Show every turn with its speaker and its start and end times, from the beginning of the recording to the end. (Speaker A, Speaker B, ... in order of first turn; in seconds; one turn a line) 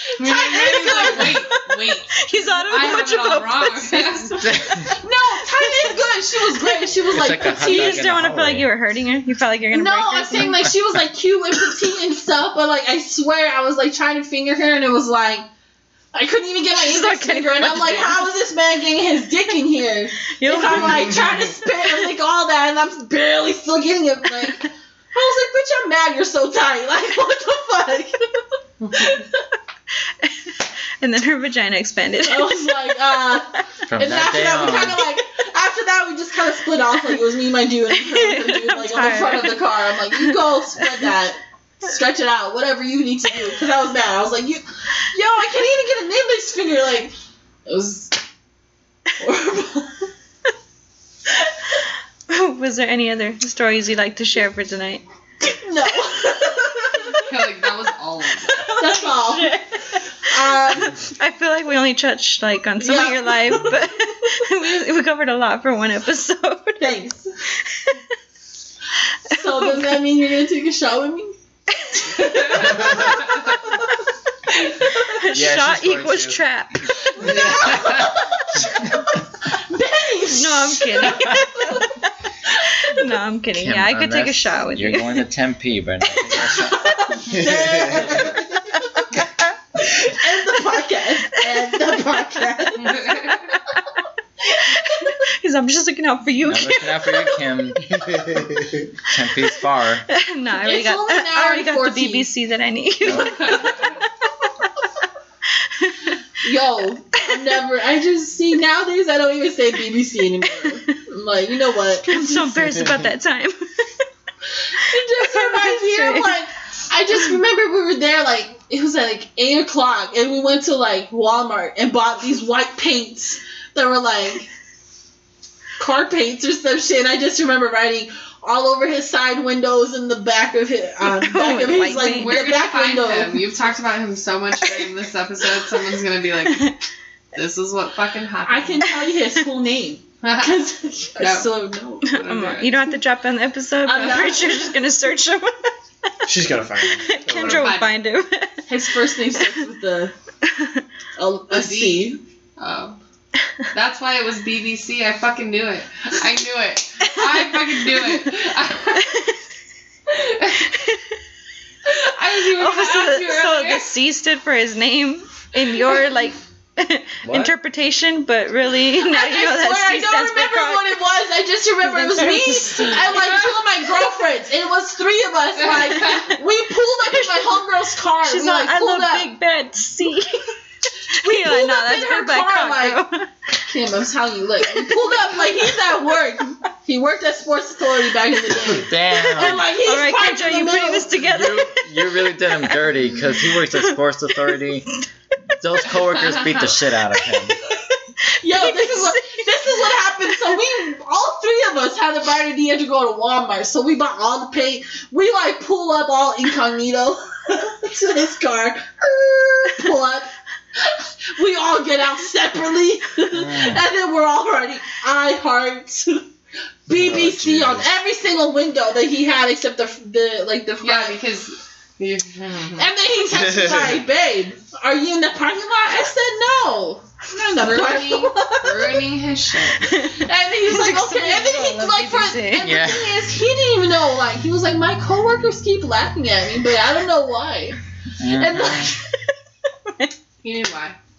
Speaker A: 0.2-4.4
Speaker B: 0.2-1.4
Speaker C: 0.5-1.6
Speaker C: 2.1-5.0
Speaker B: 4.9-8.1
Speaker C: 5.5-5.9
Speaker C: 6.6-10.7
Speaker D: 7.1-8.7
Speaker B: 9.7-15.5
Speaker B: 16.1-29.4
Speaker C: 16.8-18.3
Speaker C: 20.3-21.6
Speaker C: 30.2-33.4
Speaker B: 32.2-47.1
Speaker D: 33.9-35.0
Speaker C: 38.0-39.6
Speaker B: 47.6-48.1
Speaker B: 49.2-50.1
Speaker C: 52.3-55.0
Speaker B: 55.4-57.2
Speaker A: 57.2-58.7
Speaker C: 58.6-59.7
Speaker B: 58.7-59.6
Speaker B: 60.2-61.0
Speaker C: 60.3-66.9
Speaker B: 62.8-63.8
Speaker B: 66.8-67.2
Speaker C: 67.7-68.0
Speaker B: 69.3-71.3
Speaker C: 69.4-69.9
Speaker B: 71.9-73.9
Speaker B: 74.5-75.0
Speaker C: 74.8-76.9
Speaker D: 75.3-76.4
Speaker B: 77.1-81.8
Speaker C: 80.3-81.9
Speaker C: 82.8-85.2
Speaker D: 83.5-86.8
Speaker B: 86.8-89.0
Speaker E: 87.4-88.1
Speaker B: 89.8-93.3
Speaker A: 92.8-93.4
Speaker C: 94.6-97.2
Speaker D: 96.5-98.1
Speaker D: 99.0-100.0
Speaker C: 100.1-103.8
Speaker B: 100.6-102.3
Speaker D: 103.0-103.3
Speaker A: 103.2-104.0
Speaker C: 105.8-106.2
Speaker B: 106.4-112.7
Speaker C: 112.1-114.0
Speaker B: 114.7-124.5
Speaker C: 115.1-116.3
Speaker B: 125.8-133.5
Speaker C: 131.0-132.3
Speaker A: 132.0-136.7
Speaker C: 136.5-136.8
Speaker A: 137.3-138.8
Speaker B: 138.4-142.1
Speaker A: 140.2-140.6
Speaker A: 141.2-141.5
Speaker A: 142.0-142.9
Speaker C: 142.1-145.7
Speaker B: 143.8-144.7
Speaker E: 146.3-147.7
Speaker C: 147.0-148.7
Speaker A: 147.4-147.9
Speaker B: 148.7-150.1
Speaker C: 150.5-150.8
Speaker B: 151.2-152.2
Speaker A: 151.5-153.0
Speaker A: 153.7-159.1
Speaker C: 159.0-159.4
Speaker A: 160.1-160.6
Speaker C: 160.7-161.0
Speaker A: 161.9-163.9
Speaker C: 162.6-170.9
Speaker D: 167.2-167.5
Speaker B: 169.0-179.3
Speaker C: 171.8-173.3
Speaker A: 173.1-173.5
Speaker A: 175.6-176.4
Speaker C: 177.1-177.5
Speaker C: 178.2-180.4
Speaker C: 181.1-183.3
Speaker B: 181.2-183.0
Speaker B: 183.7-191.1
Speaker C: 184.7-185.4
Speaker D: 188.7-189.7
Speaker C: 189.4-193.2
Speaker D: 191.2-194.9
Speaker C: 193.7-194.5
Speaker D: 195.6-197.6
Speaker B: 198.4-216.3
Speaker C: 198.5-200.6
Speaker D: 213.3-213.8
Speaker B: 216.9-221.2
Speaker E: 216.9-217.8
Speaker A: 220.8-222.9
Speaker B: 222.8-229.2
Speaker E: 223.3-224.0
Speaker A: 227.5-229.9
Speaker C: 229.8-232.7
Speaker B: 230.0-239.0
Speaker D: 232.6-233.2
Speaker D: 238.2-238.9
Speaker A: 240.4-241.0